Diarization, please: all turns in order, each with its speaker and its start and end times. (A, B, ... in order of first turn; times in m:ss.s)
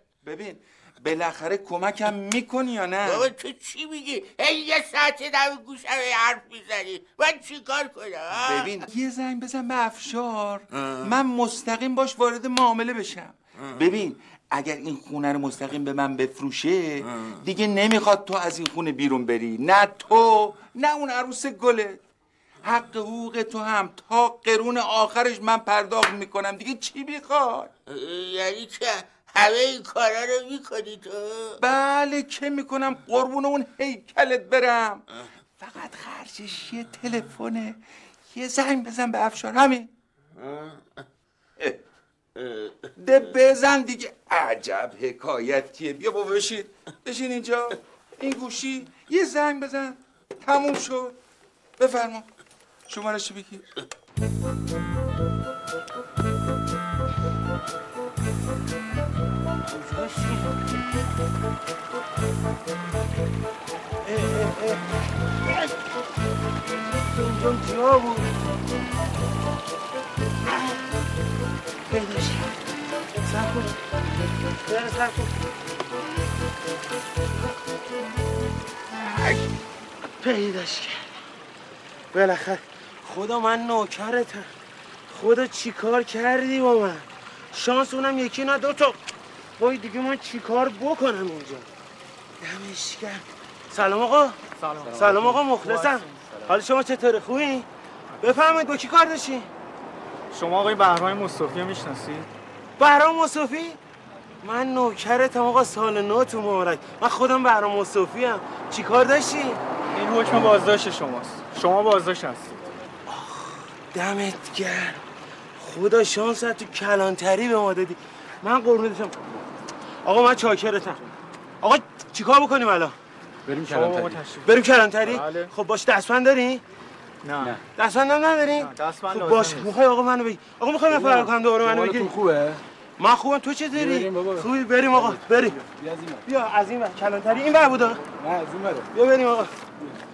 0:00.2-0:03.3 A
0:03.0-0:08.7 B
0:08.3-0:22.0 A
0:22.6-0:27.7 A
0:27.9-0:31.6 B
0:31.6-0:35.0 A
0:35.6-0:39.9 A
0:43.0-0:51.2 A
0:51.8-0:52.3 A
0:52.9-0:53.7 A
0:59.7-1:00.5 C
1:04.0-1:04.8 C
1:07.1-1:08.4 C
1:11.9-1:12.5 C
1:13.2-1:13.8 C
1:14.7-1:15.3 C
1:20.2-1:21.0 C
1:22.1-1:24.5 C
1:25.1-1:29.0 C
1:29.6-1:31.7 C
1:32.4-1:34.4 C
1:34.6-1:36.5 D
1:34.9-1:37.7 C
1:38.2-1:39.5 C
1:40.3-1:42.3 D
1:42.8-1:43.8 C
1:44.4-1:49.6 C
1:49.9-1:52.6 D
1:53.1-1:55.0 C
1:55.6-1:59.2 C
2:00.0-2:01.0 C
2:01.6-2:02.9 C
2:03.5-2:04.2 E
2:03.7-2:05.5 D
2:04.4-2:06.6 C
2:07.2-2:07.6 D
2:07.8-2:12.1 C
2:08.6-2:09.7 D
2:10.9-2:12.6 E
2:13.0-2:15.6 C
2:13.7-2:16.2 E
2:16.2-2:18.0 C
2:18.2-2:18.9 E
2:18.9-2:19.7 C